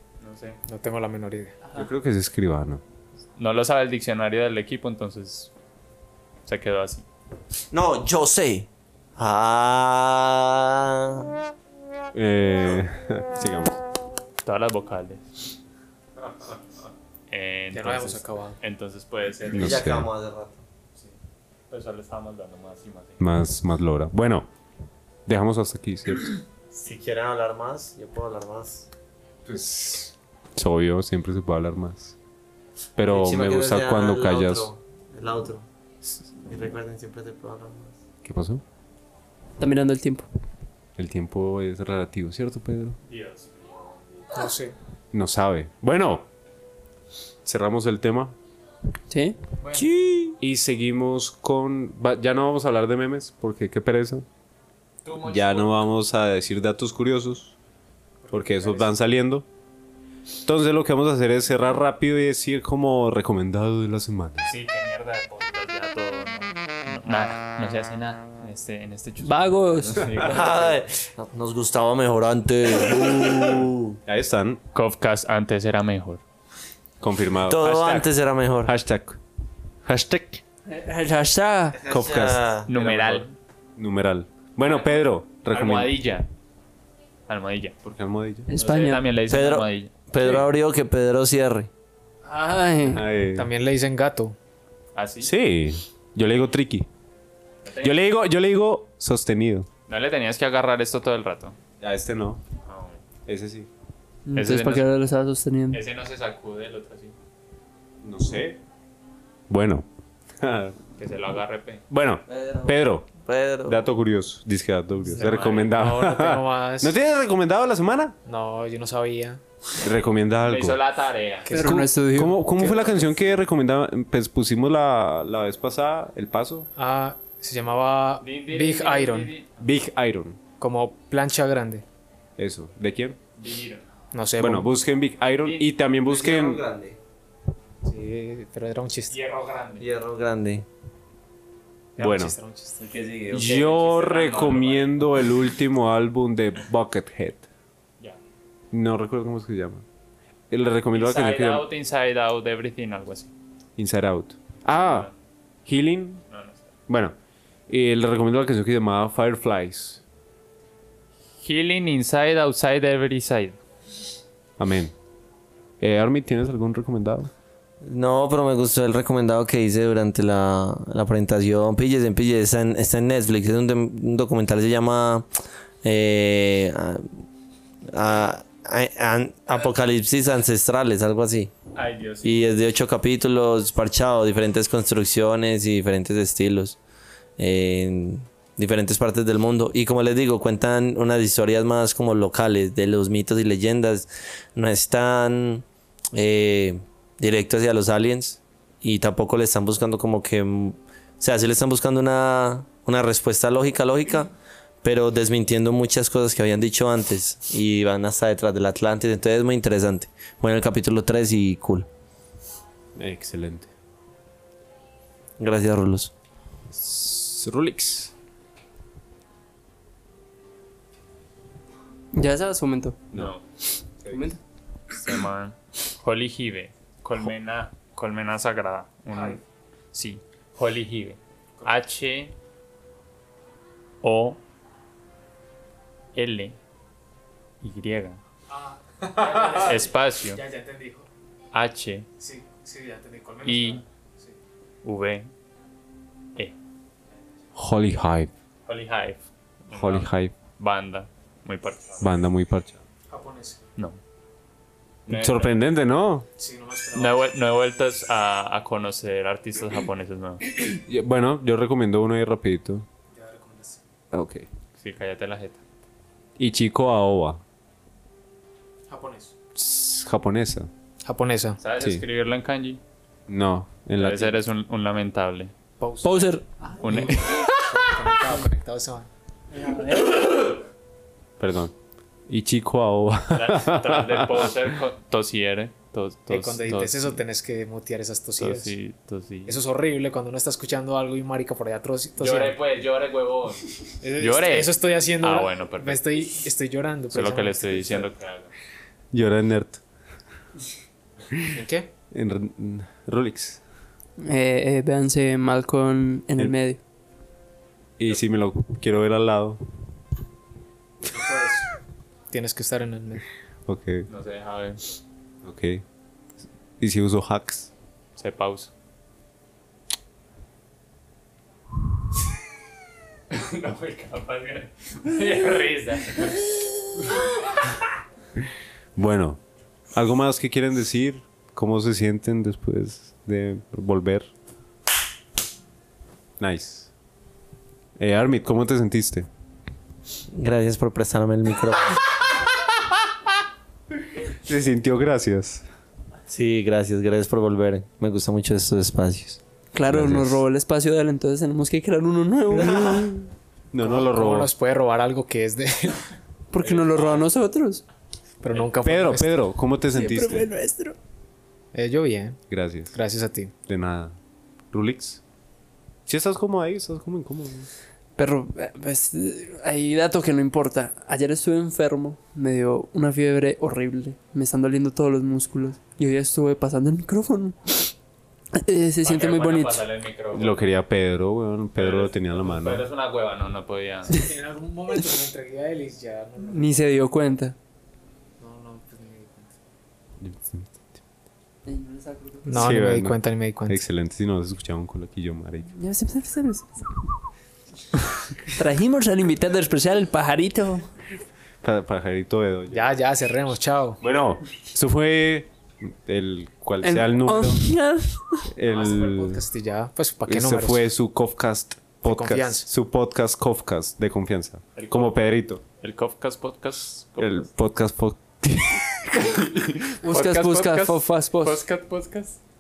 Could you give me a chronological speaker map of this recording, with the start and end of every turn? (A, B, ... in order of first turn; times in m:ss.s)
0:00.2-0:00.6 A
0:00.7-0:01.5 B
0:01.8-0:02.8 C
0:03.4-0:05.5 A
0:06.5-0:07.1 A
0:07.7-0:11.3 D
0:12.1-0:13.8 C
0:14.4-0:15.4 A
0:17.3-0:19.9 A
0:17.7-0:18.6 B
0:19.5-0:20.1 C
0:19.5-0:20.6 D
0:21.7-0:23.2 A
0:23.2-0:24.5 C
0:25.3-0:26.4 C
0:26.7-0:28.9 D
0:29.4-0:32.2 C
0:33.0-0:34.7 C
0:33.1-0:35.7 D
0:36.4-0:38.0 D
0:38.2-0:38.6 C
0:39.6-0:40.3 E
0:41.0-0:43.0 C
0:43.1-0:43.9 A
0:44.3-0:44.7 B
0:45.1-0:46.3 C
0:47.4-0:48.4 C
0:49.1-0:50.4 E
0:50.4-0:54.3 C
0:55.0-0:55.9 A
0:55.2-0:57.6 C
0:58.2-0:58.9 B
0:58.3-0:59.4 C
1:00.4-1:04.5 C
1:04.4-1:10.8 A
1:09.2-1:10.2 E
1:10.2-1:14.0 D
1:14.1-1:14.6 C
1:14.7-1:16.2 A
1:17.0-1:18.1 C
1:17.4-1:18.7 D
1:18.6-1:19.2 C
1:19.8-1:20.4 C
1:20.7-1:21.8 E
1:21.8-1:23.1 D
1:21.9-1:23.0 C
1:22.7-1:23.4 A
1:23.8-1:26.0 C
1:24.6-1:26.3 A
1:27.3-1:27.8 A
1:27.8-1:28.5 C
1:28.5-1:29.1 E
1:28.5-1:29.9 A
1:29.3-1:31.7 D
1:32.2-1:33.0 E
1:32.9-1:33.5 C
1:33.4-1:34.4 B
1:35.0-1:35.3 A
1:35.2-1:36.9 C
1:37.6-1:38.0 A
1:37.8-1:39.7 C
1:39.9-1:41.6 A
1:41.8-1:42.4 C
1:42.7-1:43.0 A
1:43.3-1:43.7 C
1:44.3-1:45.8 E
1:44.3-1:44.9 A
1:45.7-1:47.1 A
1:48.0-1:48.6 C
1:49.5-1:49.9 C
1:50.4-1:50.8 C
1:51.0-1:51.8 A
1:51.9-1:53.1 C
1:52.3-1:53.8 D
1:53.6-1:58.2 C
1:55.2-1:55.7 A
1:55.2-1:56.9 B
1:58.3-1:59.4 B
1:59.8-2:00.8 C
2:00.4-2:01.5 A
2:01.5-2:01.9 B
2:01.5-2:02.4 E
2:02.1-2:06.7 C
2:02.6-2:03.2 B
2:06.8-2:09.3 B
2:08.2-2:09.5 A
2:09.6-2:10.4 C
2:10.6-2:11.8 B
2:12.4-2:13.2 C
2:13.4-2:13.8 A
2:14.1-2:14.7 B
2:14.4-2:16.6 C
2:15.4-2:15.7 A
2:16.1-2:17.0 D
2:17.8-2:19.2 B
2:19.1-2:19.9 A
2:19.8-2:20.7 D
2:22.0-2:22.8 B
2:22.0-2:22.4 C
2:22.8-2:23.6 D
2:23.3-2:25.0 A
2:23.3-2:27.5 C
2:28.7-2:29.8 C
2:30.5-2:31.7 C
2:30.9-2:33.3 A
2:33.8-2:35.1 C
2:34.7-2:35.1 A
2:35.7-2:36.2 C
2:36.3-2:36.7 A
2:36.9-2:37.2 C
2:37.7-2:40.0 C
2:41.4-2:43.6 A
2:44.6-2:44.9 C
2:45.8-2:47.3 C
2:47.8-2:55.3 D
2:55.8-2:57.2 D
2:57.9-3:01.6 D
3:01.8-3:02.4 A
3:02.2-3:06.8 D
3:07.4-3:31.9 D
3:33.0-3:33.7 C
3:35.4-3:36.1 D
3:36.7-3:38.1 C
3:42.1-3:43.0 E
3:43.1-3:43.4 A
3:44.1-3:44.4 E
3:44.9-3:49.4 A
3:49.1-3:49.4 B
3:49.9-3:52.3 A
3:54.0-3:54.4 A
3:56.2-3:56.6 A
3:57.6-3:58.2 A
3:58.5-4:01.1 B
3:59.2-4:00.4 A
4:01.5-4:02.1 A
4:02.2-4:04.4 B
4:03.5-4:03.8 A
4:04.8-4:05.3 A
4:07.6-4:08.3 C
4:08.7-4:12.1 A
4:09.7-4:10.3 C
4:12.0-4:12.8 C
4:13.1-4:13.6 B
4:15.1-4:15.6 A
4:15.1-4:16.3 C
4:16.4-4:17.2 B
4:17.0-4:20.4 A
4:20.6-4:22.9 C
4:23.1-4:23.8 B
4:24.1-4:24.5 C
4:24.8-4:25.6 A
4:26.4-4:27.4 C
4:28.9-4:29.3 B
4:29.6-4:30.7 C
4:31.0-4:31.6 B
4:31.6-4:32.8 A
4:31.8-4:32.0 C
4:33.3-4:34.4 C
4:34.0-4:35.5 A
4:35.8-4:36.2 B
4:36.0-4:38.4 E
4:36.8-4:37.2 A
4:37.7-4:39.1 B
4:39.5-4:40.6 E
4:41.4-4:41.7 C
4:42.3-4:44.5 C
4:43.3-4:47.2 A
4:46.3-4:48.8 B
4:48.4-4:49.6 A
4:49.5-4:52.6 B
4:52.2-4:56.0 A
4:54.0-4:58.1 B
4:57.1-4:58.5 A
4:59.1-4:59.8 C
5:01.4-5:01.9 B
5:02.1-5:03.6 C
5:04.2-5:06.8 E
5:08.0-5:09.6 C
5:11.1-5:11.7 B
5:12.3-5:13.2 B
5:13.7-5:14.1 C
5:14.1-5:14.9 A
5:15.4-5:15.8 C
5:16.8-5:17.7 C
5:18.2-5:18.7 A
5:23.3-5:27.2 A
5:29.0-5:29.4 C
5:29.9-5:34.3 C
5:36.4-5:36.9 C
5:38.0-5:39.3 C
5:40.3-5:42.0 D
5:44.3-5:45.6 C
5:46.3-5:49.4 D
5:49.7-5:53.3 E
5:49.9-5:50.4 C
5:52.6-5:53.1 C
5:53.7-5:54.5 C
5:53.8-5:56.0 B
5:56.5-5:57.8 E
5:56.7-5:57.1 A
5:58.4-5:59.4 B
5:58.8-6:00.5 C
5:59.9-6:01.0 E
6:01.7-6:02.4 B
6:02.5-6:02.9 C
6:02.9-6:03.5 B
6:03.7-6:04.2 C
6:04.7-6:05.2 C
6:06.1-6:07.7 C
6:08.2-6:17.9 E
6:18.6-6:19.8 E
6:19.0-6:20.6 A
6:20.3-6:22.8 C
6:21.8-6:24.2 A
6:24.1-6:26.8 B
6:26.5-6:27.6 E
6:28.4-6:29.5 B
6:30.2-6:30.9 C
6:31.6-6:32.7 E
6:32.5-6:33.8 B
6:32.5-6:35.7 C
6:35.8-6:36.8 E
6:38.5-6:40.9 E
6:41.6-6:42.9 C
6:42.7-6:44.0 B
6:44.0-6:47.7 C
6:46.8-6:48.5 E
6:48.5-6:49.4 C
6:48.7-6:50.9 B
6:50.3-6:55.6 C
6:52.1-6:52.7 B
6:54.8-6:55.2 A
6:55.8-6:57.5 A
6:57.2-6:59.9 C
7:00.0-7:01.6 E
7:00.1-7:02.4 A